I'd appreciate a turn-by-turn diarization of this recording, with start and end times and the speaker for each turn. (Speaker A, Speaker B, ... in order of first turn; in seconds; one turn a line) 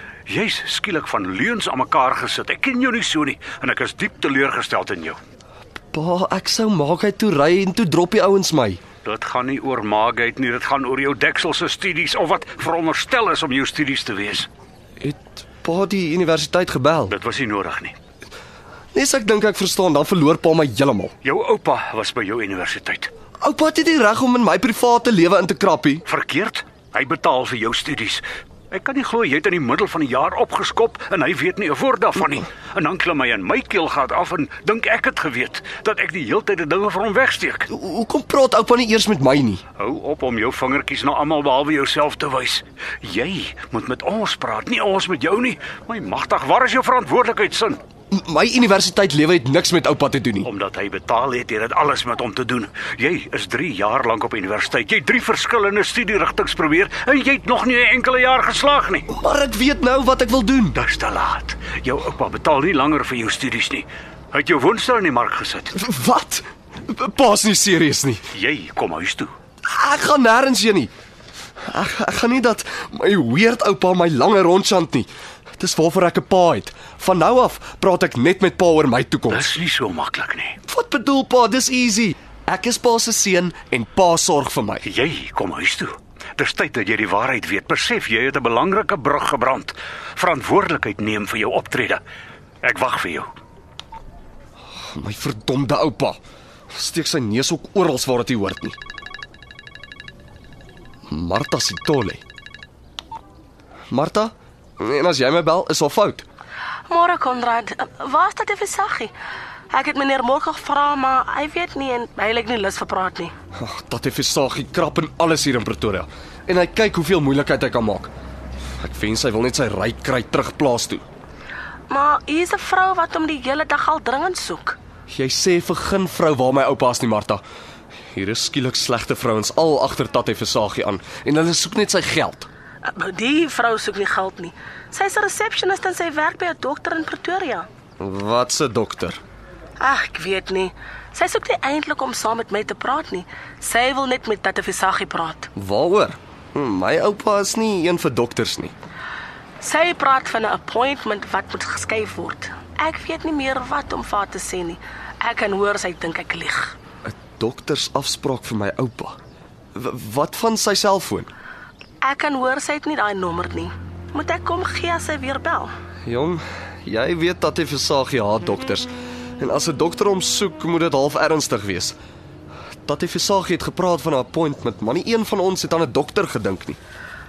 Speaker A: 0.3-5.2
Speaker B: 5.9-8.8
Speaker A: 9.0-14.5
Speaker B: 15.0-17.1
Speaker A: 17.1-17.9
Speaker B: 18.9-21.1
Speaker A: 21.2-23.1
Speaker B: 23.4-26.0
Speaker A: 26.1-37.7
Speaker B: 37.7-39.6
Speaker A: 39.8-47.8
Speaker B: 48.1-50.5
Speaker A: 50.4-59.1
Speaker B: 59.1-60.8
Speaker A: 60.8-65.8
Speaker B: 65.7-68.2
Speaker A: 68.3-69.3
Speaker B: 69.7-70.9
Speaker B: 71.7-79.5
Speaker A: 79.3-80.6
Speaker B: 80.7-84.8
Speaker A: 84.8-92.0
Speaker A: 92.6-93.3
Speaker B: 94.7-96.2
Speaker B: 96.7-98.8
Speaker B: 101.1-102.2
Speaker B: 103.9-106.2
Speaker C: 106.9-109.1
Speaker C: 109.7-113.3
Speaker B: 113.5-118.1
Speaker B: 118.8-121.0
Speaker C: 121.9-124.8
Speaker B: 125.1-127.4
Speaker B: 128.1-132.5
Speaker C: 132.8-137.7
Speaker B: 138.0-139.2
Speaker C: 139.8-145.5
Speaker B: 145.6-148.7
Speaker C: 149.6-156.7
Speaker B: 157.0-159.2
Speaker B: 159.7-161.3
Speaker C: 162.0-165.7
Speaker B: 166.1-171.9
Speaker B: 172.8-176.8